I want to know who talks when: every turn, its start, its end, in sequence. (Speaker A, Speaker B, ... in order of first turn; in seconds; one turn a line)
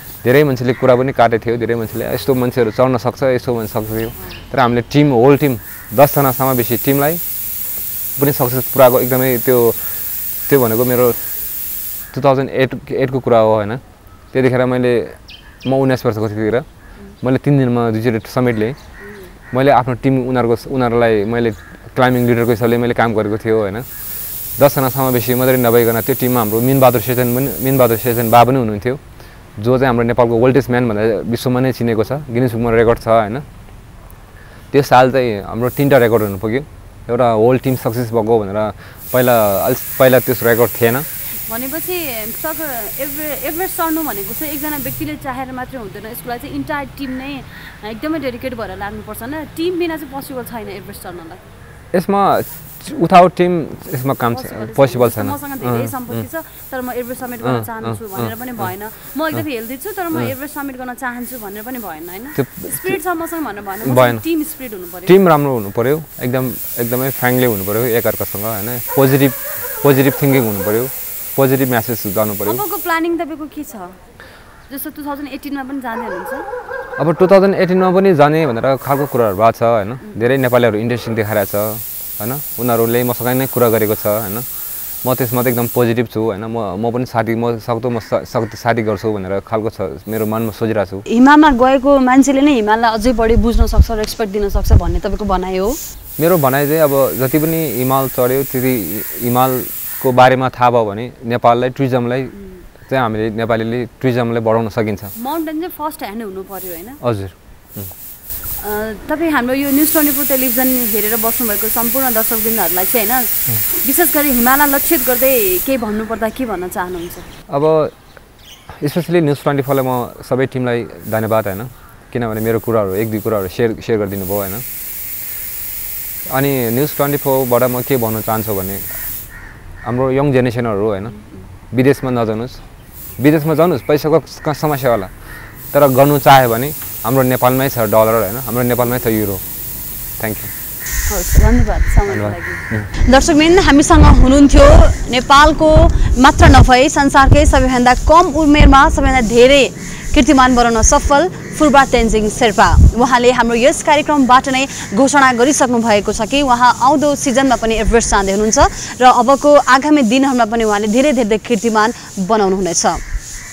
Speaker A: 0.2-7.2
Speaker A: 8.2-9.8
Speaker A: 10.5-11.2
Speaker A: 12.1-13.8
Speaker A: 14.3-16.6
Speaker A: 17.2-18.8
Speaker A: 19.5-23.9
Speaker A: 24.6-29.0
Speaker A: 29.6-33.4
Speaker A: 34.7-41.1
Speaker B: 41.5-51.4
Speaker A: 51.9-56.2
Speaker B: 54.3-65.2
Speaker A: 57.4-58.3
Speaker A: 62.3-63.0
Speaker A: 63.8-64.2
Speaker A: 65.0-72.6
Speaker B: 72.4-73.9
Speaker B: 74.7-76.5
Speaker A: 77.0-84.5
Speaker A: 85.0-91.0
Speaker B: 91.1-95.8
Speaker A: 96.2-102.3
Speaker A: 102.9-105.1
Speaker B: 105.2-107.0
Speaker A: 107.0-107.9
Speaker B: 108.6-117.3
Speaker A: 117.5-117.9
Speaker A: 118.7-124.6
Speaker A: 126.3-128.8
Speaker A: 129.8-131.1
Speaker A: 131.7-132.6
Speaker A: 133.2-135.1
Speaker A: 135.7-139.4
Speaker A: 140.2-140.5
Speaker B: 141.1-163.0
Speaker A: 142.1-142.9